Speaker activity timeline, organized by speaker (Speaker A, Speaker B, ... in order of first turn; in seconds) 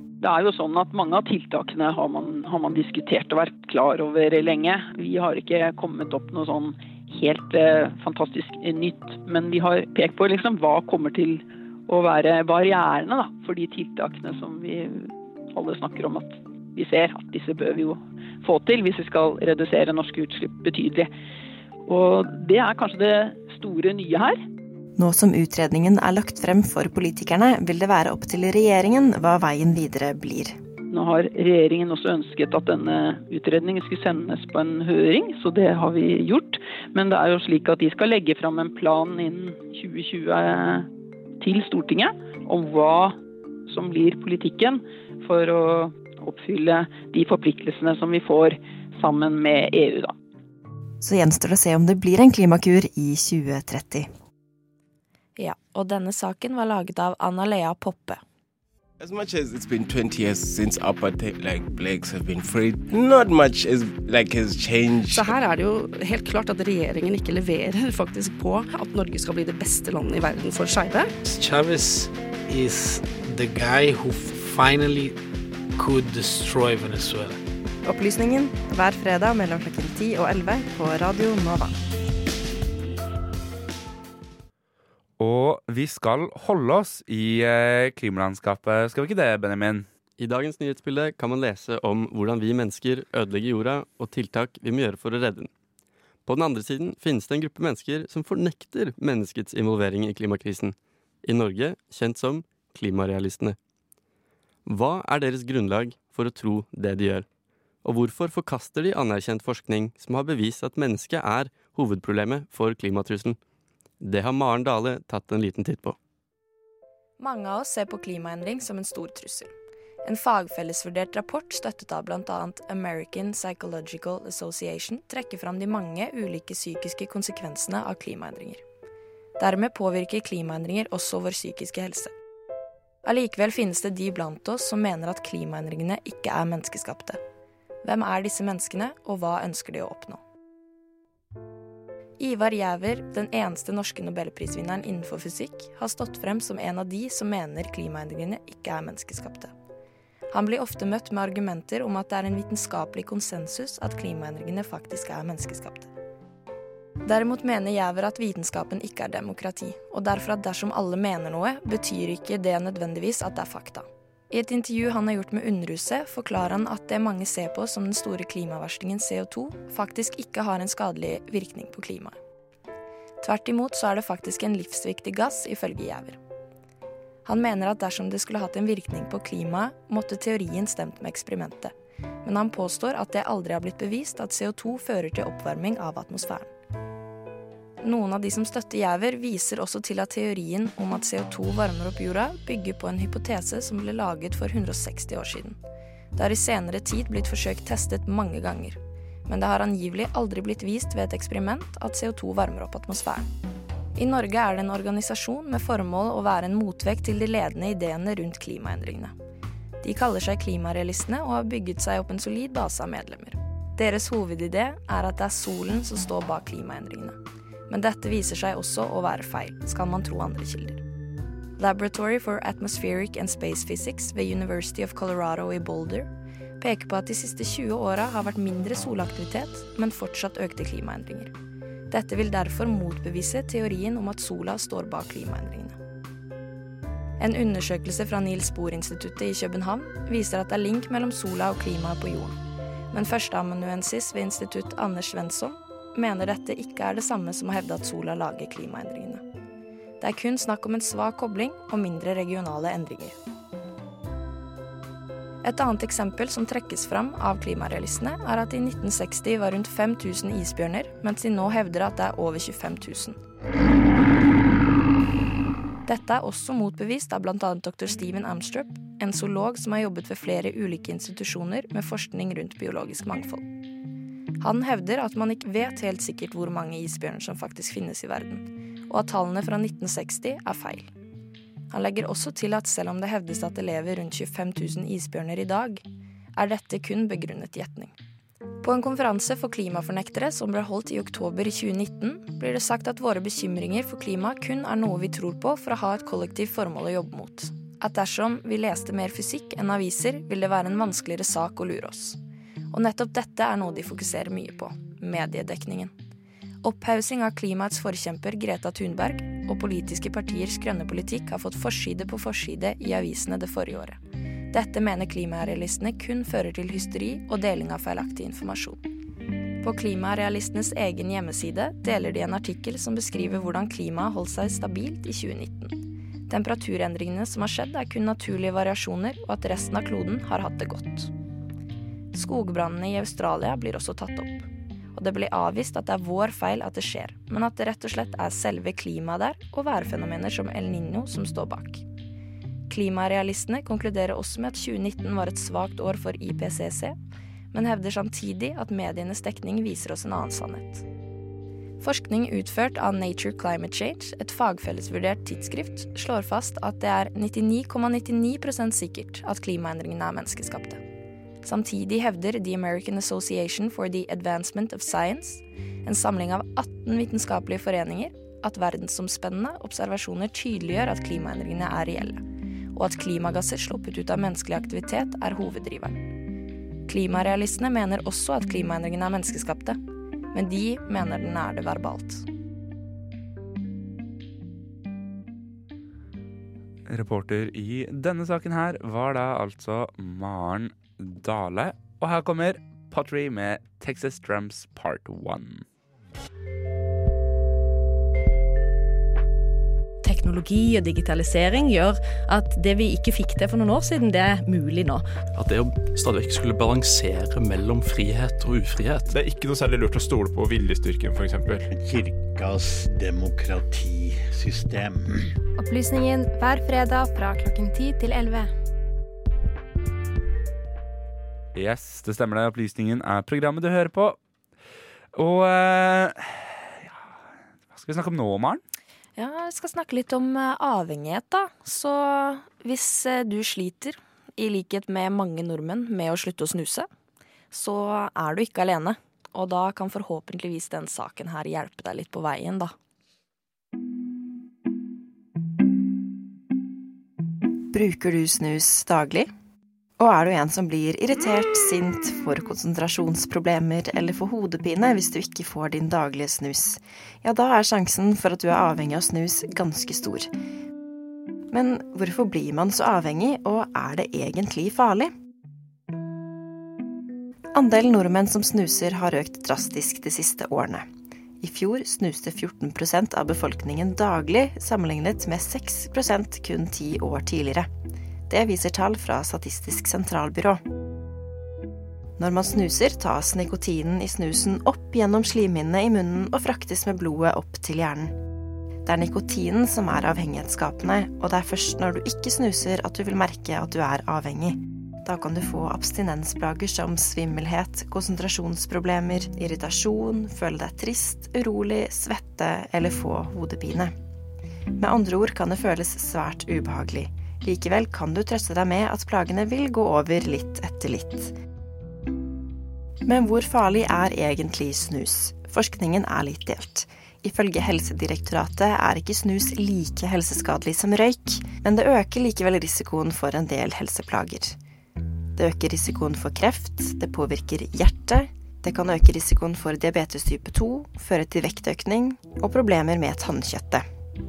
Speaker A: 0.2-21.1, 21.9-24.4, 30.9-40.9, 41.4-43.2, 43.7-50.1
Speaker B: 25.0-30.6, 51.0-54.1, 77.8-81.7, 447.7-449.3, 450.0-460.3, 461.5-465.1, 467.5-470.9, 471.4-477.7, 478.3-480.6, 482.2-488.1, 488.9-503.9, 504.8-511.3, 513.0-524.6, 525.4-533.9
Speaker C: 55.4-58.2, 117.2-119.5, 120.0-128.6, 129.4-132.1, 133.0-137.2, 137.8-140.2, 142.2-149.5, 150.3-155.9, 157.1-172.2, 173.2-176.2, 177.2-181.7, 182.2-186.5, 187.8-195.6, 196.2-203.3, 204.0-209.1, 209.8-217.2, 217.7-220.8, 221.6-226.1, 226.6-231.3, 231.9-235.8, 237.2-242.4, 242.9-249.2, 250.0-253.2, 255.4-263.2, 265.9-273.4, 274.4-280.9, 281.7-285.8, 286.4-287.9, 288.6-302.2, 302.7-305.9, 306.6-314.0, 314.5-318.8, 319.6-331.1, 332.1-341.8, 342.7-347.0, 347.5-350.8, 351.8-360.8, 361.4-372.2, 372.7-376.0, 376.9-379.8, 380.3-382.2, 429.2-436.9, 437.5-442.7
Speaker D: 59.0-65.3
Speaker E: 65.1-71.1
Speaker F: 71.2-75.2, 75.8-77.4
Speaker G: 85.2-89.9, 386.9-395.6, 421.6-424.2, 425.1-427.0, 427.7-428.6
Speaker H: 90.2-95.5, 96.3-103.6, 104.7-107.3, 107.8-113.4, 114.0-116.0
Speaker I: 400.0-405.1
Speaker J: 405.4-409.1
Speaker K: 409.1-415.1
Speaker L: 415.6-418.5